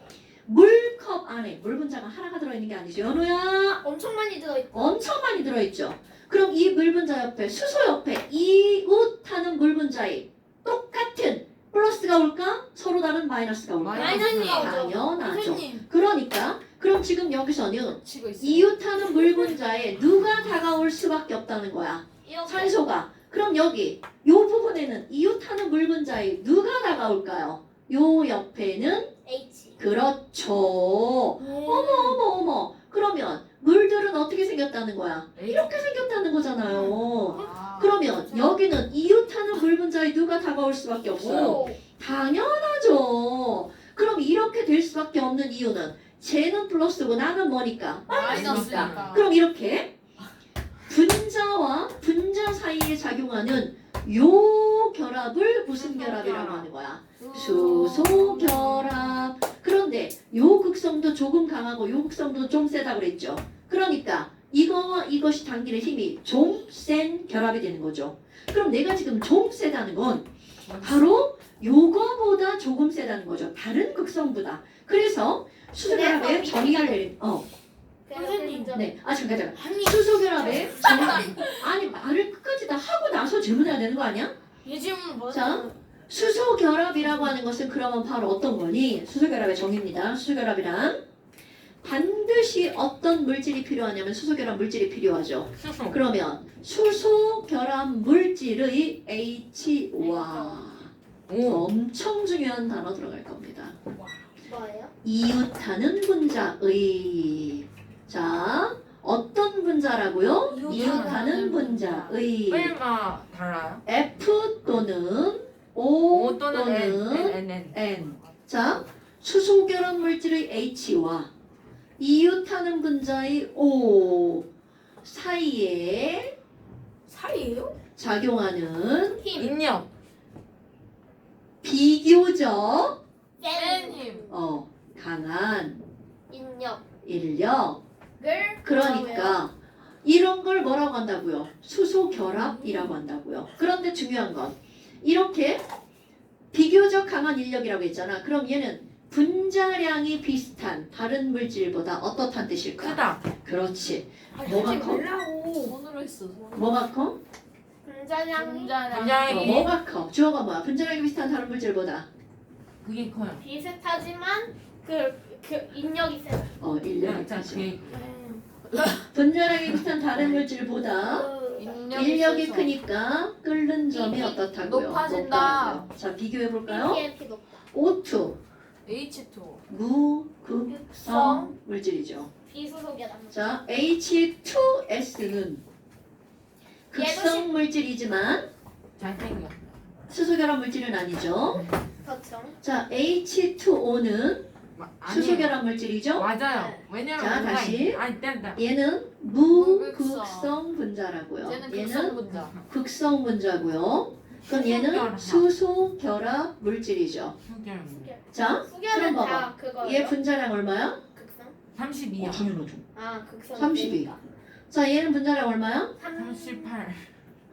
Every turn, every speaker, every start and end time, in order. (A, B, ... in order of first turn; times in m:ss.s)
0:00.4-0:03.8 A
0:03.8-0:05.0 B
0:04.7-0:29.1 A
0:13.8-0:14.8 C
0:14.0-0:15.0 B
0:14.2-0:15.9 D
0:18.0-0:18.7 C
0:22.2-0:22.8 B
0:29.2-0:29.8 B
0:29.8-0:50.0 A
0:31.4-0:32.2 D
0:35.4-0:35.8 C
0:37.3-0:37.9 C
0:41.2-0:41.7 C
0:41.2-0:41.8 B
0:48.1-0:49.2 C
0:48.1-0:49.2 E
0:48.7-0:49.2 B
0:50.9-1:17.5 A
0:55.8-0:56.7 C
0:57.2-0:58.9 D
0:58.1-0:58.8 C
1:10.6-1:11.1 C
1:15.8-1:17.0 B
1:18.1-1:18.9 B
1:18.1-1:18.8 D
1:18.7-1:24.3 A
1:19.5-1:21.7 D
1:20.5-1:21.4 C
1:24.6-1:25.8 D
1:25.3-1:31.0 A
1:31.8-1:43.8 A
1:35.6-1:36.0 C
1:41.3-1:41.7 C
1:44.4-1:44.9 B
1:45.0-1:52.8 A
1:50.5-1:52.1 D
1:50.6-1:51.7 C
1:52.5-1:53.8 C
1:53.9-2:01.3 A
1:56.1-1:58.4 C
2:02.0-2:04.5 A
2:05.0-2:06.4 A
2:07.1-2:07.8 D
2:08.0-2:09.2 A
2:09.1-2:09.6 B
2:09.4-2:09.9 C
2:11.6-2:13.0 A
2:13.4-2:14.4 B
2:13.5-2:14.3 C
2:14.3-2:15.8 A
2:16.3-2:16.8 B
2:17.0-2:17.8 A
2:18.2-2:19.4 B
2:18.6-2:25.6 A
2:26.5-2:35.1 A
2:32.8-2:33.3 C
2:34.3-2:35.8 D
2:34.4-2:35.0 C
2:35.7-2:36.6 E
2:36.4-2:36.7 C
2:36.6-2:37.2 A
2:37.8-2:38.9 B
2:38.4-2:39.7 C
2:38.6-2:39.6 E
2:39.2-2:42.1 A
2:42.8-2:43.4 C
2:43.4-2:46.5 B
2:46.6-2:47.7 A
2:47.0-2:48.0 C
2:47.9-2:48.4 D
2:48.7-2:49.0 C
2:49.0-2:51.3 A
2:51.0-2:51.8 B
2:51.6-2:52.7 E
2:51.7-2:52.7 C
2:51.9-2:57.0 A
2:53.9-2:54.5 B
2:54.6-2:55.8 E
2:56.7-2:57.6 B
2:57.7-2:58.4 A
2:58.9-2:59.6 E
2:59.7-3:02.3 A
3:00.7-3:01.5 B
3:02.5-3:03.4 B
3:03.3-3:05.6 A
3:06.9-3:08.5 A
3:06.9-3:07.5 B
3:09.0-3:09.9 C
3:10.1-3:11.6 A
3:12.0-3:12.6 B
3:12.6-3:14.5 A
3:14.8-3:15.6 C
3:15.0-3:16.3 A
3:16.2-3:18.6 C
3:16.5-3:16.8 B
3:17.2-3:18.0 A
3:18.6-3:27.4 A
3:19.5-3:20.5 E
3:19.7-3:20.5 C
3:21.4-3:22.5 E
3:21.8-3:22.6 C
3:24.5-3:25.5 C
3:27.4-3:28.2 C
3:28.0-3:30.2 B
3:28.3-3:31.0 A
3:31.1-3:31.6 B
3:31.7-3:32.5 C
3:32.2-3:32.8 A
3:33.0-3:34.2 B
3:33.6-3:34.1 A
3:34.7-3:36.0 A
3:36.0-3:36.7 B
3:36.2-3:37.1 C